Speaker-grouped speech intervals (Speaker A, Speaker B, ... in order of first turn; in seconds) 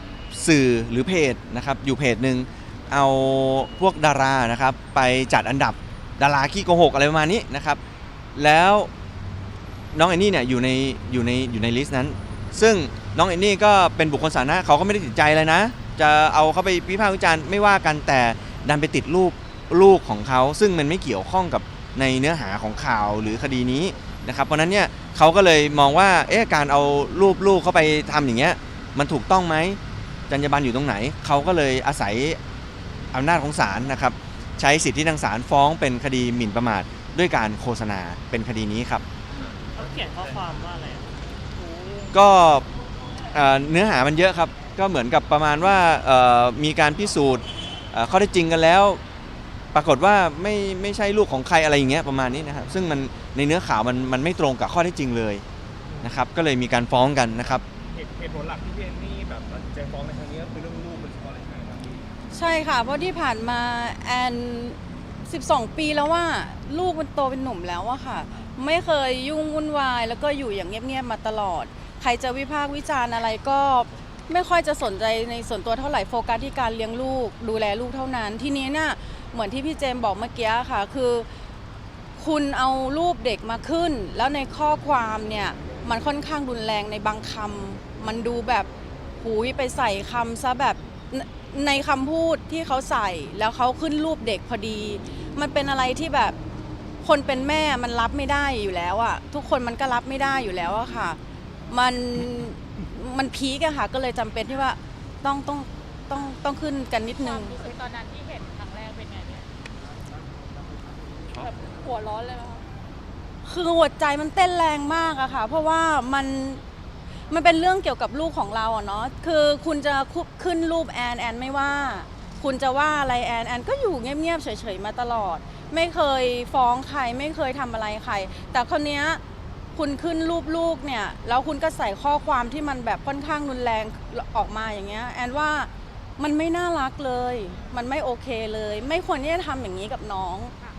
Speaker A: 0.3-7.8, 8.3-8.9, 9.9-29.8, 30.3-32.4, 33.1-39.0, 42.1-42.6, 43.3-49.0, 49.7-55.4, 56.0-57.6
Speaker B: 39.7-42.1
Speaker C: 39.8-40.4, 57.9-62.1
Speaker D: 62.3-81.3, 82.2-88.7, 89.2-96.3, 97.0-101.2, 101.7-107.6, 113.4-116.6, 117.3-129.2, 129.7-140.5
Speaker E: 107.1-109.5, 111.3-112.6